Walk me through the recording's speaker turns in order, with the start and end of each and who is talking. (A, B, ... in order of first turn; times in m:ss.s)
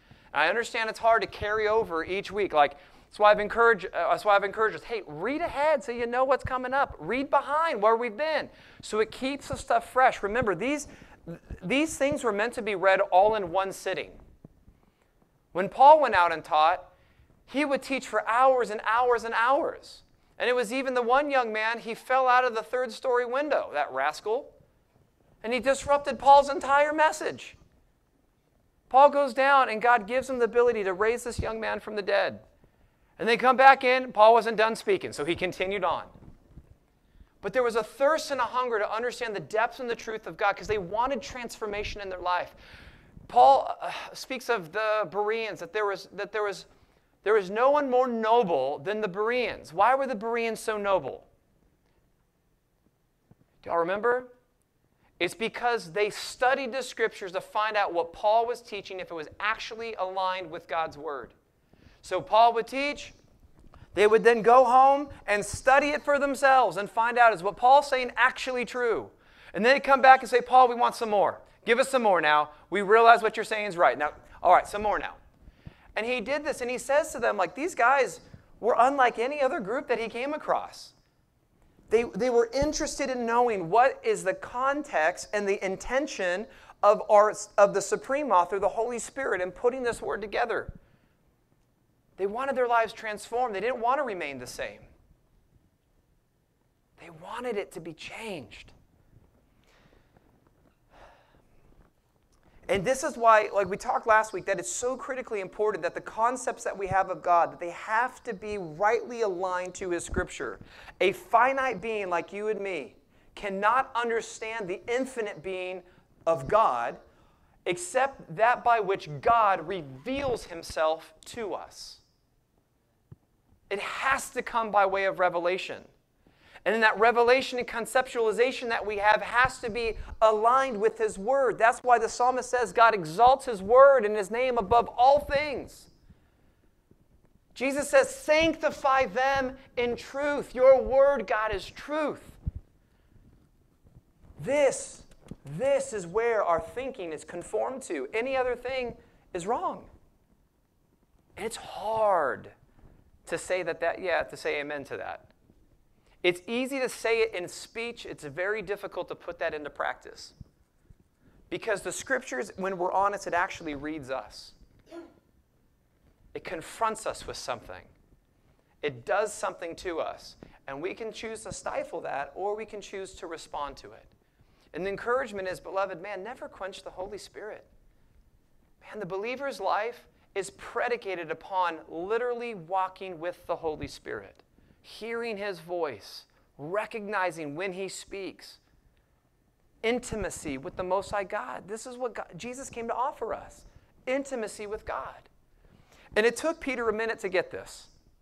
0:00.3-0:14.2 A
0:15.5-0:16.9 A
0:17.5-0:24.5 A
0:25.4-0:27.6 A
0:28.9-0:32.4 A
0:33.2-0:36.1 A
0:37.4-0:42.6 A
0:43.2-0:46.7 A
0:47.2-0:51.3 A
0:53.6-0:54.3 A
0:55.2-1:01.3 A
1:02.0-1:03.2 A
1:03.9-1:15.2 A
1:15.9-1:20.9 A
1:21.9-1:30.7 A
1:32.2-1:34.9 A
1:37.0-1:38.7 A
1:42.7-1:57.0 A
1:57.6-2:02.0 A
2:03.7-2:05.9 A
2:06.6-2:15.9 A
2:17.5-2:22.4 A
2:24.4-2:29.9 A
2:31.4-2:32.5 A
2:33.2-2:35.3 A
2:36.2-2:40.3 A
2:41.5-2:44.6 A
2:46.3-2:47.9 A
2:48.8-2:54.1 A
2:54.7-2:57.7 A
2:58.8-3:08.6 A
3:09.8-3:15.3 A
3:16.1-3:17.9 A